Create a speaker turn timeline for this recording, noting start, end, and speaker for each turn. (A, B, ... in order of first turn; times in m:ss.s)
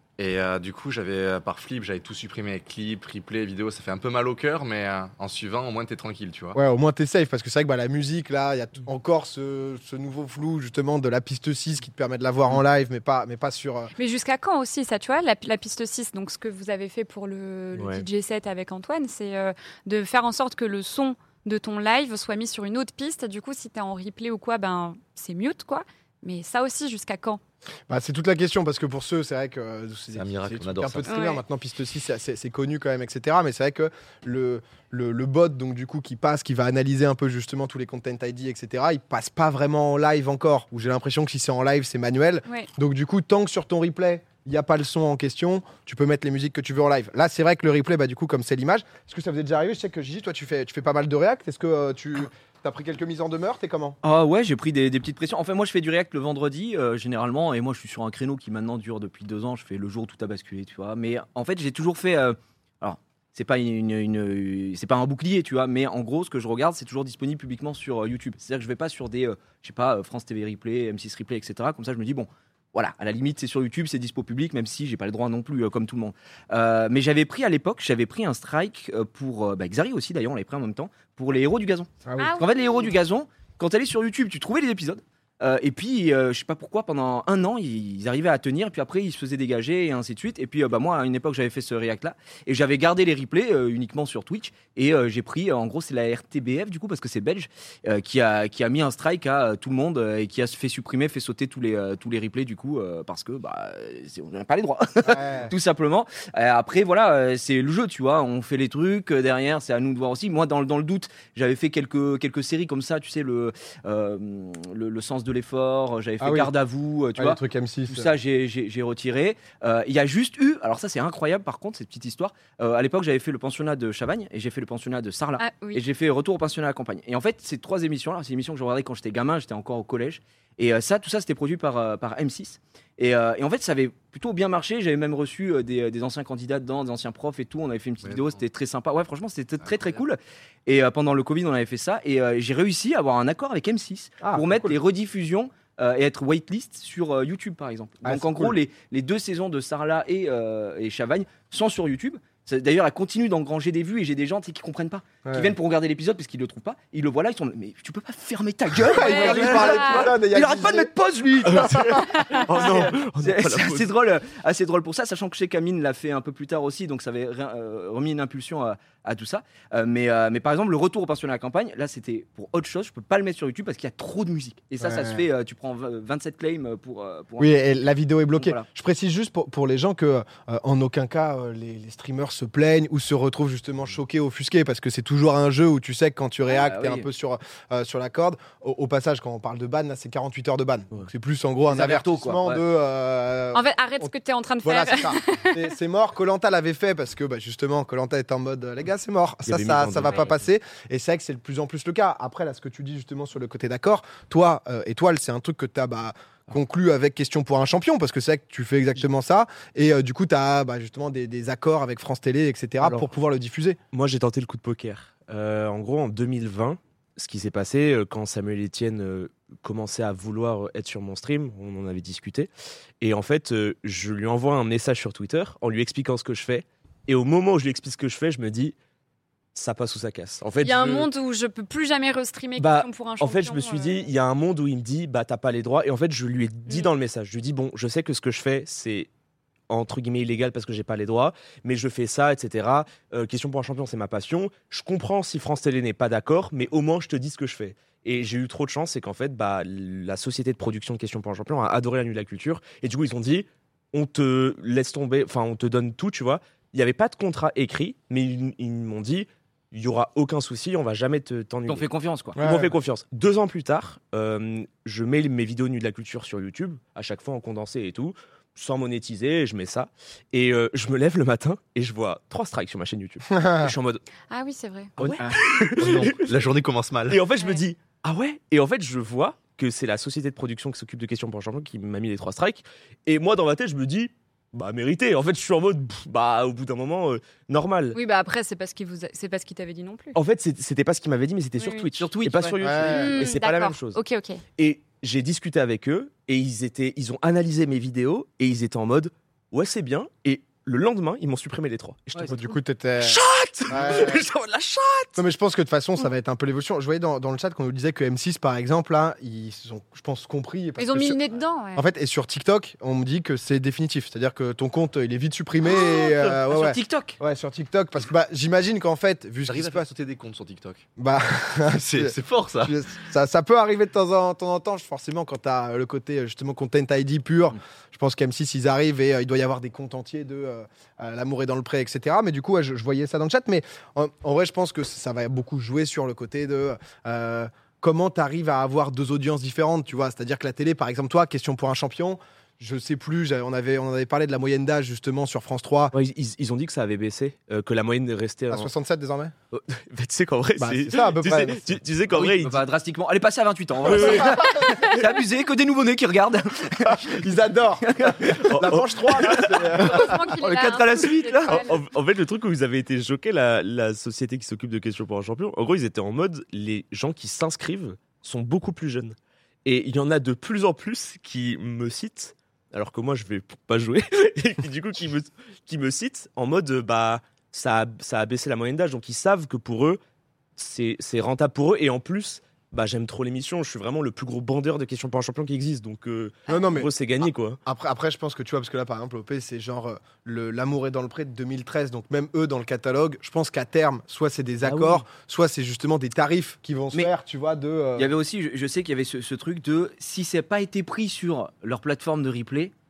0:00.2-0:06.6 A
0:06.6-0:13.9 B
0:14.0-0:27.4 C
0:17.8-0:18.1 D
0:27.9-0:54.0 B
0:30.2-0:31.1 A
0:31.1-0:31.4 C
0:54.0-2:57.5 E
1:22.1-1:22.3 B
1:22.2-1:22.9 C
1:45.1-1:45.5 B
1:56.2-1:56.5 B
1:57.2-1:58.1 B
2:05.4-2:05.8 C
2:18.0-2:18.4 A
2:24.2-2:24.8 B
2:28.0-2:28.6 B
2:35.2-2:35.5 B
2:38.9-2:40.9 B
2:38.9-2:40.1 C
2:41.4-2:41.9 B
2:41.4-2:43.9 D
2:42.2-2:42.4 C
2:54.8-2:55.2 B
2:57.4-3:33.8 B
2:58.4-2:58.6 E
3:06.5-3:07.1 E
3:11.7-3:12.7 E
3:13.5-3:15.7 C
3:19.4-3:20.4 D
3:32.8-3:33.1 D
3:33.9-3:42.5 D
3:43.0-3:48.8 D
3:49.6-3:51.1 D
3:50.6-3:54.1 C
3:52.6-3:59.1 D
3:56.7-3:56.9 C
3:59.7-4:34.0 D
4:21.7-4:22.4 E
4:22.4-4:22.7 B
4:33.4-4:33.7 B
4:34.3-4:35.0 C
4:35.0-4:36.3 D
4:35.0-4:37.2 A
4:37.1-4:48.0 D
4:37.4-4:37.6 C
4:47.9-4:50.2 C
4:50.2-4:54.0 D
4:51.6-4:51.9 C
4:51.9-4:52.6 E
4:52.6-4:53.3 B
4:52.9-4:54.4 C
4:54.6-5:05.2 D
5:02.4-5:04.2 B
5:05.2-5:19.9 B
5:10.8-5:11.9 C
5:16.2-5:17.2 E
5:19.5-5:20.8 A
5:21.0-5:45.9 B
5:21.7-5:22.8 A
5:45.9-5:48.7 D
5:48.5-5:49.3 B
5:49.5-5:52.6 D
5:50.6-5:51.7 B
5:52.1-5:57.3 E
5:53.8-5:54.5 D
5:54.2-5:54.8 C
5:56.9-5:57.9 B
5:57.8-5:58.6 E
5:58.5-6:00.2 B
5:58.5-6:00.1 D
5:59.1-6:01.6 E
5:59.8-6:01.8 C
6:01.5-6:20.0 D
6:20.6-6:27.6 D
6:26.5-6:26.9 B
6:27.6-6:38.1 B
6:34.6-6:35.0 D
6:38.0-6:42.7 E